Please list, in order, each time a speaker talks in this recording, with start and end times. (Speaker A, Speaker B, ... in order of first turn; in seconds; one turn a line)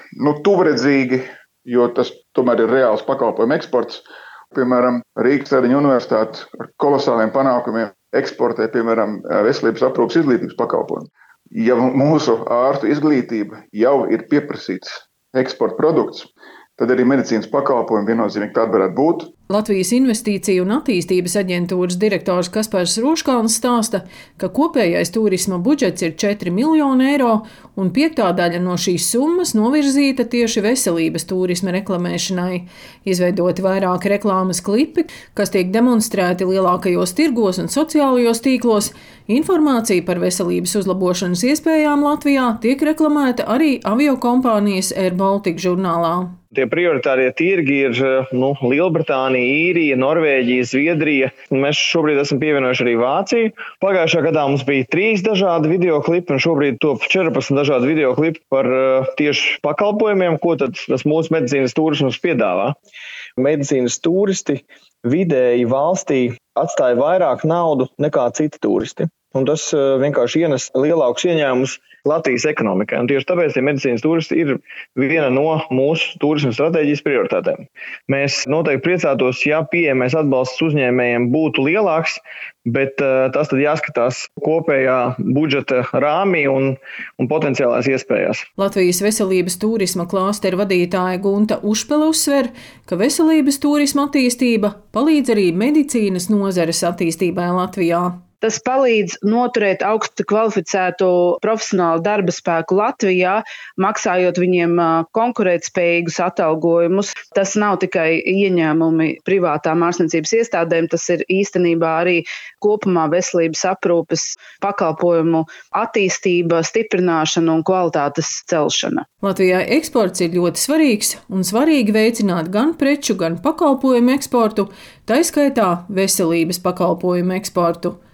Speaker A: 0.2-19.3
Speaker B: 19.5-46.4
Speaker C: 46.5-62.8
Speaker C: 63.4-88.5
Speaker B: 88.6-98.2
Speaker D: 98.4-119.0
Speaker B: 119.2-128.0